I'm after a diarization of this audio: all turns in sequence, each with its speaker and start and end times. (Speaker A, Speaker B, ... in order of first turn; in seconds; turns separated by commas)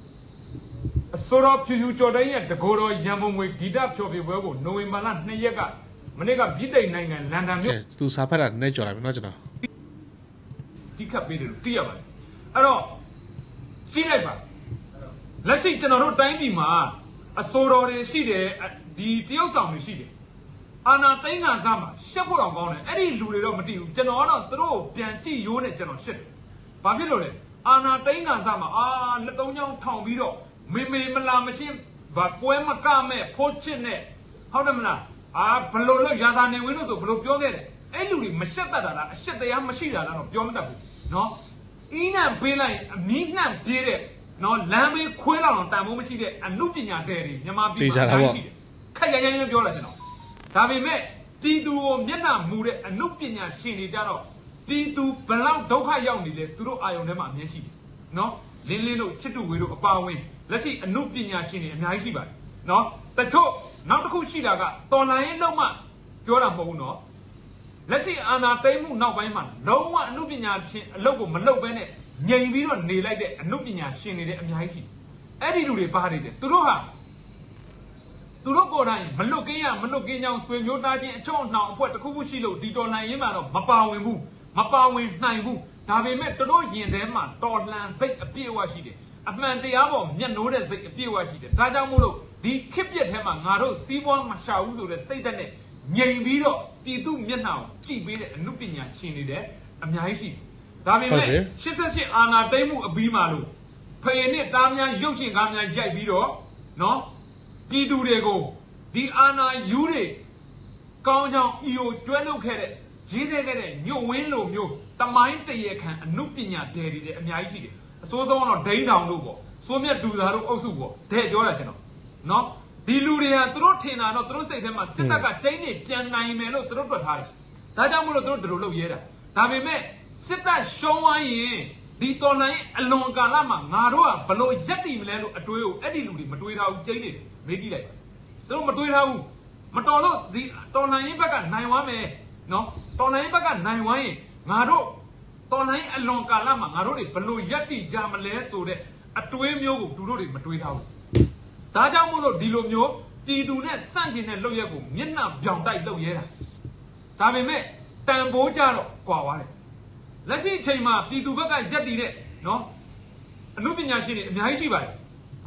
Speaker A: 1.1-7.8, Speaker B: 7.6-9.4, Speaker A: 11.0-12.0, Speaker A: 12.5-12.9, Speaker A: 13.9-14.4, Speaker A: 15.4-20.1, Speaker A: 20.9-26.3, Speaker A: 26.8-41.4, Speaker A: 41.9-50.0, Speaker B: 47.8-48.4, Speaker A: 50.5-67.0, Speaker A: 67.9-74.9, Speaker A: 75.4-76.9, Speaker A: 78.4-103.5, Speaker B: 101.1-101.5, Speaker A: 104.0-107.1, Speaker A: 107.7-110.2, Speaker A: 111.0-138.0, Speaker A: 138.5-145.0, Speaker A: 145.5-150.9, Speaker A: 151.7-156.3, Speaker A: 157.2-159.5, Speaker A: 160.2-162.7, Speaker A: 163.6-165.0